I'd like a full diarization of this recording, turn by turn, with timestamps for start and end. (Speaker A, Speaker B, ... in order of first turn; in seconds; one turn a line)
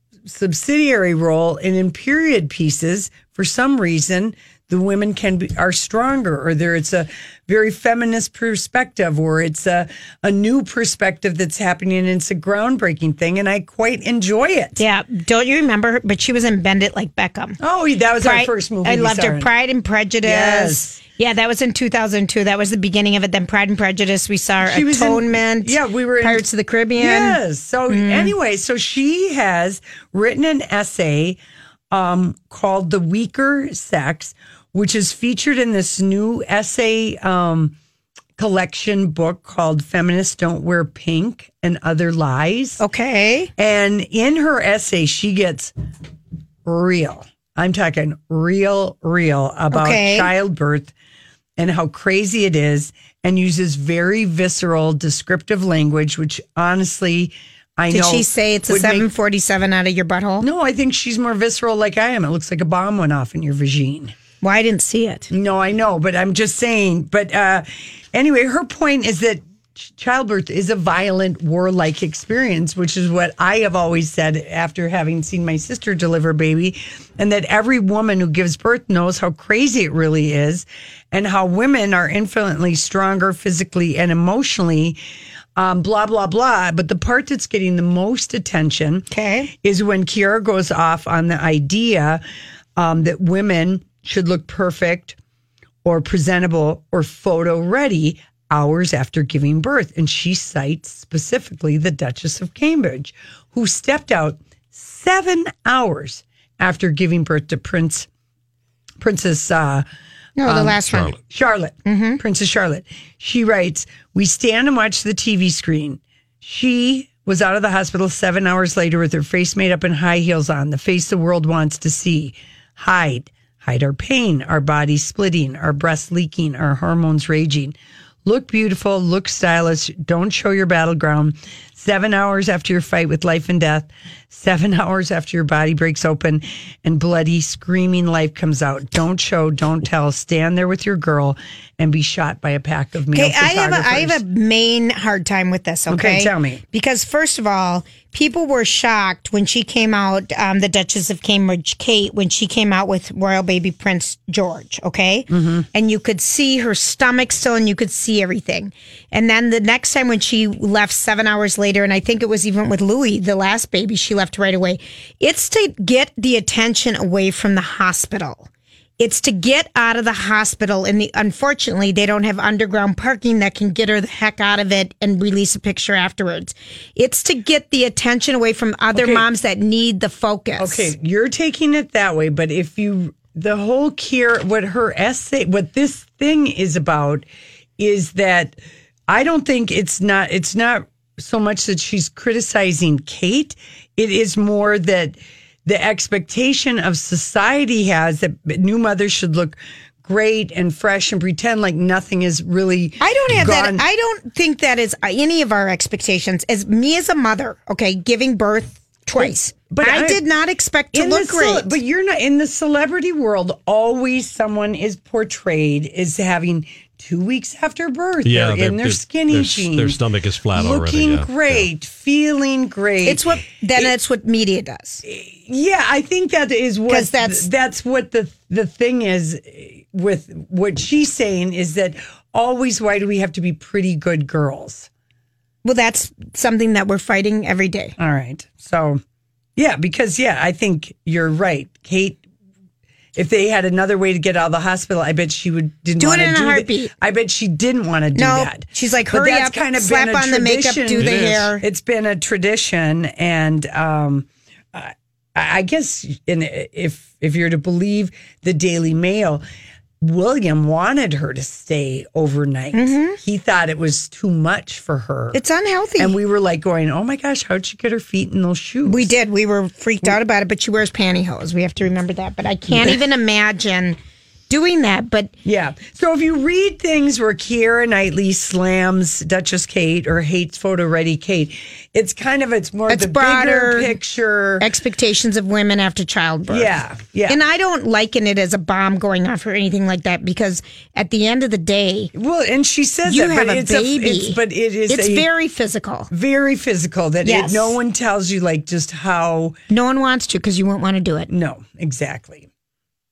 Speaker A: 0.3-14.8
Speaker B: 14.8-17.6
Speaker A: 17.6-19.5
Speaker B: 18.2-28.3
Speaker A: 20.2-21.0
Speaker A: 24.6-26.4
Speaker A: 27.0-31.4
Speaker A: 31.9-37.8
Speaker A: 38.4-42.8
Speaker B: 42.8-43.5
Speaker A: 43.6-45.7
Speaker A: 46.7-50.9
Speaker B: 49.7-50.3
Speaker A: 51.6-59.1
Speaker B: 57.9-60.5
Speaker A: 60.4-64.2
Speaker B: 64.4-65.3
Speaker A: 65.3-85.0
Speaker A: 85.6-89.1
Speaker B: 89.1-89.5
Speaker A: 89.6-92.2
Speaker A: 92.8-95.2
Speaker A: 95.8-108.1
Speaker A: 109.0-109.8
Speaker B: 110.4-111.1
Speaker A: 110.4-144.2
Speaker C: 110.9-111.2
Speaker B: 111.8-112.2
Speaker B: 143.1-168.5
Speaker A: 145.9-146.6
Speaker A: 155.3-155.7
Speaker B: 169.0-180.9
Speaker A: 178.9-179.3
Speaker A: 180.6-187.2
Speaker A: 187.8-188.6
Speaker A: 189.1-203.8
Speaker B: 203.0-211.8
Speaker A: 209.2-210.2
Speaker A: 210.9-220.0
Speaker C: 218.2-221.7
Speaker A: 220.5-223.2
Speaker B: 223.1-225.0
Speaker A: 225.0-234.9
Speaker B: 226.9-227.5
Speaker B: 235.6-237.9
Speaker A: 238.0-239.0
Speaker A: 239.6-242.2
Speaker A: 243.2-259.4
Speaker B: 246.0-246.9
Speaker B: 248.2-251.6
Speaker C: 251.0-251.4
Speaker A: 260.0-265.4
Speaker B: 262.7-263.2
Speaker B: 265.3-266.2
Speaker A: 266.0-269.1
Speaker B: 268.9-274.0
Speaker A: 272.7-273.0
Speaker B: 274.5-275.3
Speaker A: 275.4-284.7
Speaker B: 282.9-284.0
Speaker B: 284.6-286.7
Speaker A: 286.5-287.4
Speaker B: 287.3-292.1
Speaker A: 292.1-295.3
Speaker B: 293.1-296.1
Speaker A: 296.1-299.6
Speaker B: 297.2-297.8
Speaker B: 299.7-301.3
Speaker A: 301.3-302.5